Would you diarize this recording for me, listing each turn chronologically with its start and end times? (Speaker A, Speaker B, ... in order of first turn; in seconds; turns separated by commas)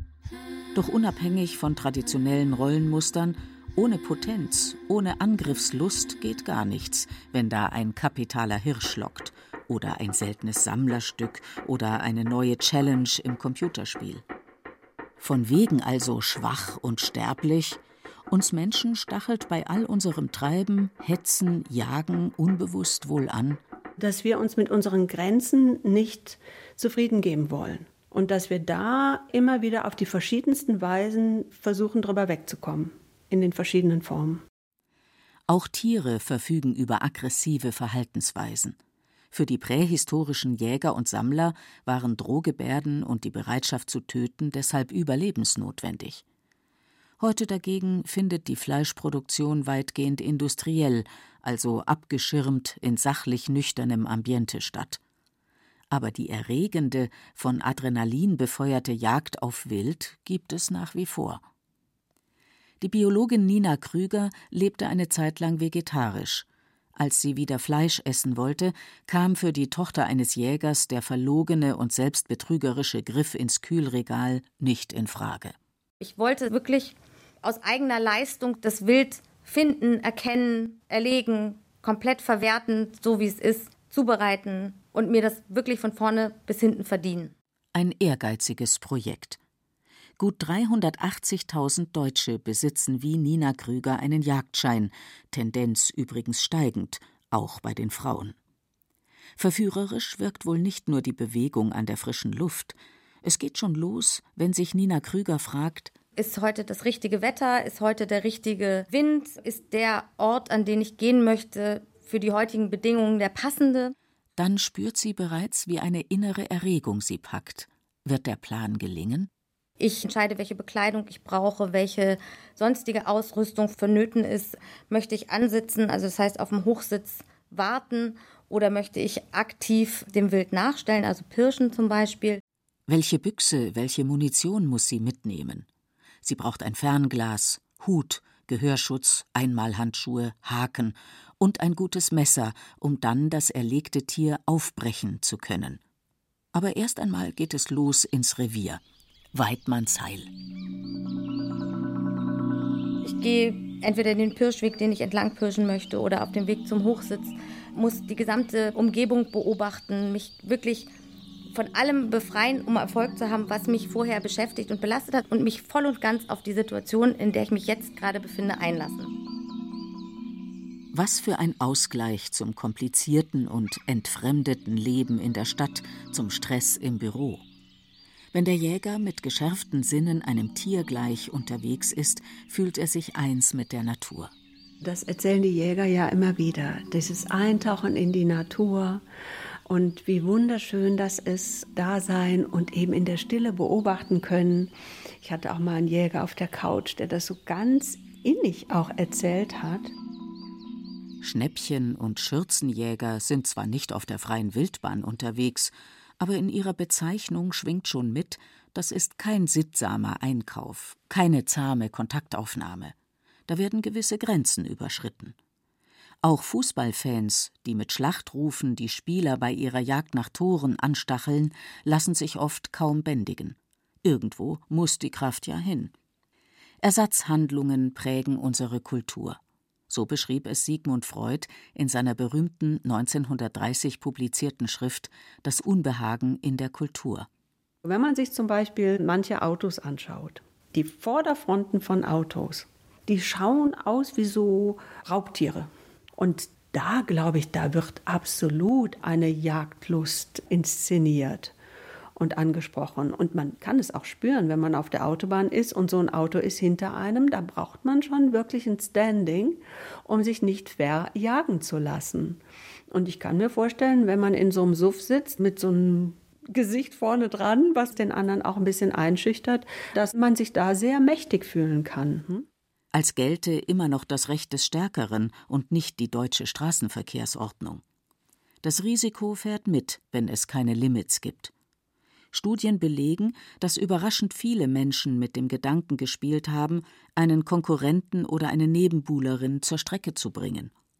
Speaker A: 0.7-14.2, Speaker A: 15.2-23.6, Speaker B: 24.0-34.4, Speaker A: 35.5-38.8, Speaker A: 39.3-46.2, Speaker A: 47.2-55.0, Speaker A: 55.9-61.4, Speaker A: 62.8-75.5, Speaker C: 76.0-87.3, Speaker A: 87.7-89.4, Speaker A: 90.2-98.3, Speaker A: 99.4-105.9, Speaker C: 106.2-113.9, Speaker A: 114.4-119.3, Speaker C: 119.8-132.4, Speaker A: 132.9-135.7, Speaker A: 136.2-145.8, Speaker A: 146.5-148.8, Speaker A: 149.3-150.3, Speaker C: 153.0-160.9, Speaker C: 161.5-169.1, Speaker A: 170.9-177.4, Speaker A: 178.3-184.3, Speaker B: 184.8-189.0, Speaker B: 189.7-199.9, Speaker A: 201.2-212.9, Speaker A: 213.5-215.3, Speaker A: 216.2-225.9, Speaker A: 226.8-237.3, Speaker B: 237.8-251.5, Speaker B: 252.2-272.5, Speaker A: 272.9-277.8, Speaker A: 278.6-281.5, Speaker A: 282.3-290.7